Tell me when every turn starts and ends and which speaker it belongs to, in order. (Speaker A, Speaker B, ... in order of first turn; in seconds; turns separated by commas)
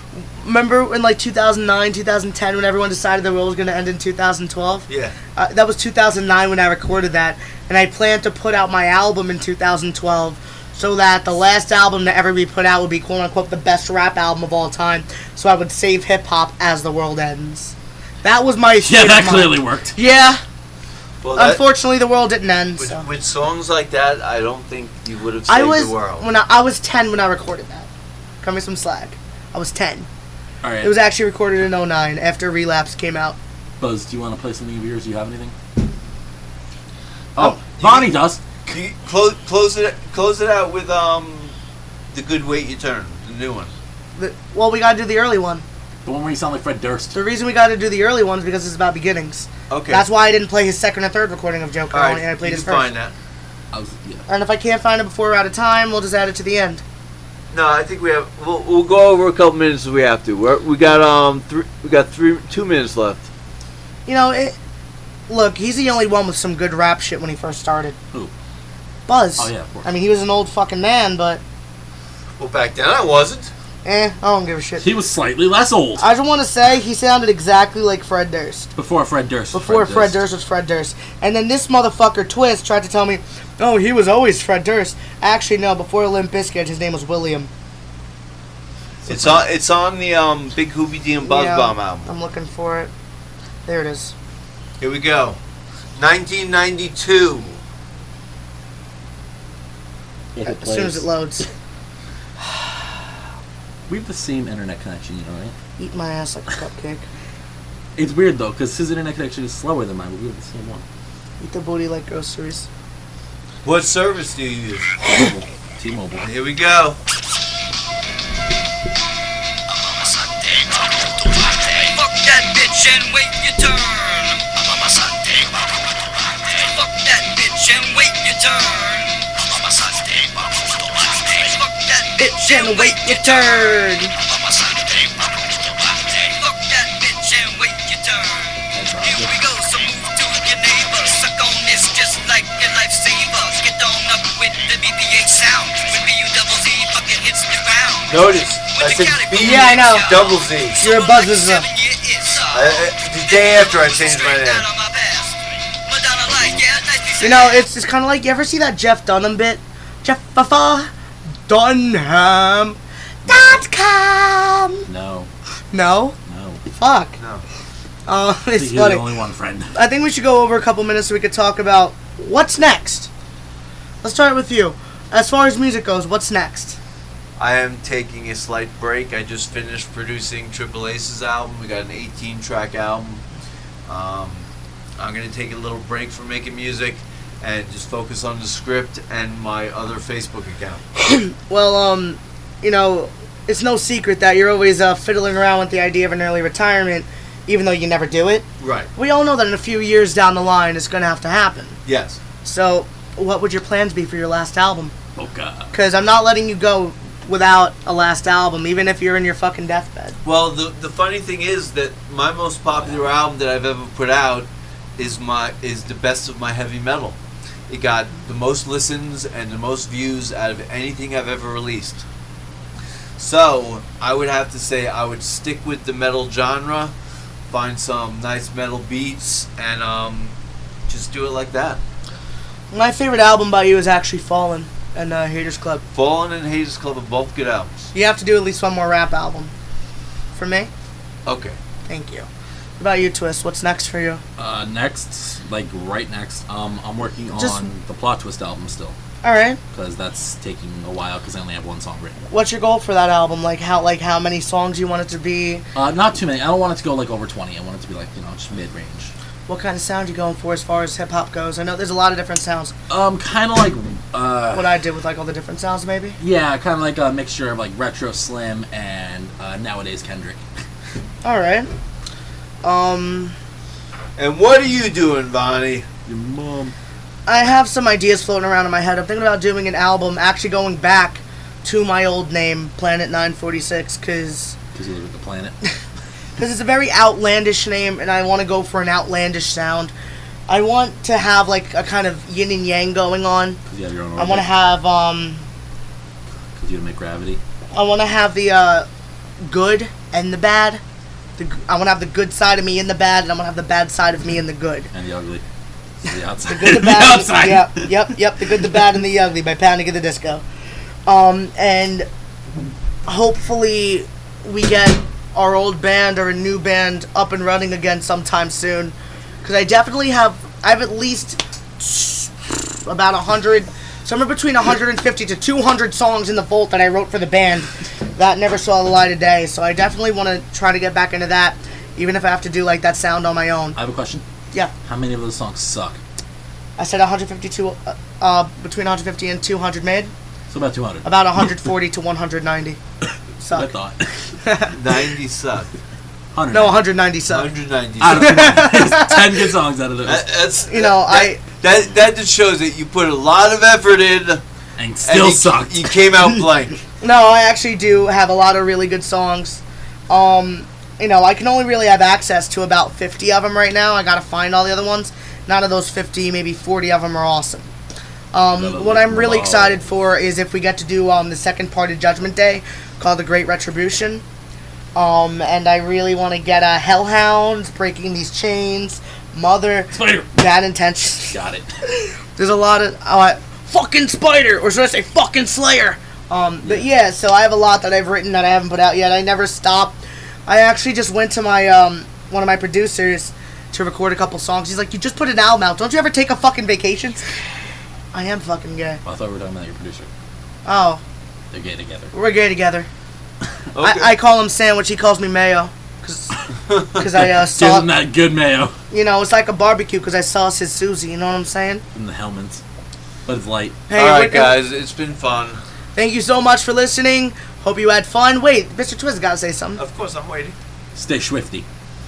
Speaker A: 0.1-20.4, Speaker B: 4.9-5.1, Speaker C: 18.8-19.9, Speaker B: 21.2-21.6, Speaker A: 21.3-23.1, Speaker B: 22.8-26.2, Speaker A: 25.5-27.9, Speaker A: 28.4-30.1, Speaker C: 30.6-30.9, Speaker A: 30.8-33.4, Speaker C: 33.8-35.5, Speaker C: 37.3-38.4, Speaker B: 37.8-38.1, Speaker B: 38.7-41.5, Speaker B: 42.1-43.7, Speaker A: 44.1-45.6, Speaker C: 46.0-47.1, Speaker A: 47.1-52.9, Speaker B: 49.7-50.1, Speaker B: 51.9-53.1, Speaker C: 53.7-54.2, Speaker A: 54.3-56.8, Speaker B: 57.5-63.2, Speaker A: 64.0-64.6, Speaker A: 65.3-68.0, Speaker A: 69.1-71.4, Speaker C: 69.4-69.9, Speaker B: 72.4-73.5, Speaker A: 73.8-74.9, Speaker C: 74.8-76.1, Speaker A: 76.0-78.7, Speaker C: 78.8-80.2, Speaker A: 79.5-87.5, Speaker C: 89.1-89.4, Speaker B: 89.1-92.1, Speaker A: 91.2-92.9, Speaker A: 93.7-94.1, Speaker B: 94.8-95.4, Speaker B: 96.0-97.6, Speaker C: 100.3-101.1, Speaker A: 100.4-101.5, Speaker C: 103.9-105.5, Speaker A: 105.8-107.0, Speaker C: 108.0-110.8, Speaker A: 111.4-112.7, Speaker B: 113.6-114.9, Speaker C: 115.1-116.3, Speaker B: 116.2-117.0, Speaker D: 119.7-157.6, Speaker A: 132.2-134.1, Speaker C: 138.7-139.4, Speaker B: 148.1-150.8, Speaker A: 149.3-150.1, Speaker A: 150.8-151.7, Speaker B: 152.5-154.7, Speaker C: 156.3-156.6, Speaker A: 157.2-160.9, Speaker A: 161.5-164.8, Speaker C: 163.3-163.6, Speaker C: 164.9-165.3, Speaker A: 165.7-166.2, Speaker C: 166.2-166.6, Speaker A: 166.7-167.2, Speaker B: 167.2-167.4, Speaker A: 168.1-169.0, Speaker C: 168.5-169.7, Speaker A: 169.7-173.1, Speaker A: 174.0-176.8, Speaker B: 177.4-183.2, Speaker B: 183.9-184.4, Speaker B: 185.0-190.8, Speaker A: 191.0-198.4, Speaker B: 198.6-198.9, Speaker A: 198.9-201.8, Speaker B: 201.8-202.2, Speaker A: 202.4-204.9, Speaker C: 205.2-205.7, Speaker A: 205.7-210.2, Speaker B: 210.2-217.2, Speaker C: 212.7-213.1, Speaker B: 217.7-222.0, Speaker B: 223.2-226.9, Speaker B: 227.5-230.3, Speaker B: 230.9-231.8, Speaker A: 232.7-235.8, Speaker B: 235.9-237.9, Speaker A: 237.9-239.5, Speaker A: 240.3-240.7, Speaker B: 241.2-241.6, Speaker A: 241.9-244.2, Speaker C: 244.4-249.0, Speaker A: 247.3-247.7, Speaker A: 249.2-249.6, Speaker C: 249.7-252.3, Speaker A: 252.3-255.6, Speaker C: 255.7-259.1, Speaker A: 259.5-262.7, Speaker C: 262.9-264.8, Speaker A: 264.5-266.2, Speaker C: 266.2-270.4, Speaker A: 271.2-271.7, Speaker A: 272.6-273.3, Speaker B: 274.2-275.9, Speaker C: 276.1-276.7, Speaker A: 277.3-284.6, Speaker C: 284.7-285.6, Speaker A: 286.4-289.9, Speaker A: 290.5-293.6, Speaker C: 293.6-294.5, Speaker A: 294.2-295.4, Speaker C: 296.6-297.4, Speaker A: 297.7-298.9, Speaker A: 299.4-300.8, Speaker A: 301.4-304.9, Speaker C: 304.9-305.4, Speaker C: 306.0-308.9, Speaker A: 306.4-310.4, Speaker A: 311.1-312.1, Speaker A: 313.1-322.3, Speaker A: 322.8-333.8, Speaker C: 333.8-334.2, Speaker C: 334.8-336.0, Speaker A: 336.8-340.1, Speaker C: 340.5-341.4, Speaker A: 341.0-342.8, Speaker A: 343.4-343.7, Speaker C: 343.5-344.1, Speaker A: 344.4-344.8, Speaker B: 344.7-345.7, Speaker C: 346.3-346.9, Speaker A: 346.5-347.5, Speaker B: 347.3-348.5, Speaker C: 348.0-350.2, Speaker A: 348.1-349.4, Speaker B: 350.0-354.4, Speaker A: 350.7-351.4, Speaker C: 354.8-356.5, Speaker B: 355.0-356.8, Speaker A: 357.0-367.7, Speaker A: 368.3-374.2, Speaker C: 368.6-369.8, Speaker A: 374.9-381.4, Speaker C: 379.9-380.3, Speaker C: 381.3-381.7, Speaker A: 382.3-397.2, Speaker C: 386.6-386.9, Speaker A: 398.1-399.0, Speaker C: 399.0-400.1, Speaker A: 400.6-401.0, Speaker C: 401.5-402.1, Speaker A: 402.1-402.9, Speaker B: 403.7-404.1, Speaker A: 403.8-406.4, Speaker B: 406.7-407.0, Speaker A: 406.9-407.9, Speaker C: 407.1-408.8, Speaker A: 408.9-411.8, Speaker C: 411.9-412.6, Speaker C: 413.2-413.8, Speaker A: 413.9-414.6, Speaker B: 413.9-415.6, Speaker A: 415.9-419.8, Speaker B: 419.8-420.6, Speaker C: 420.9-421.6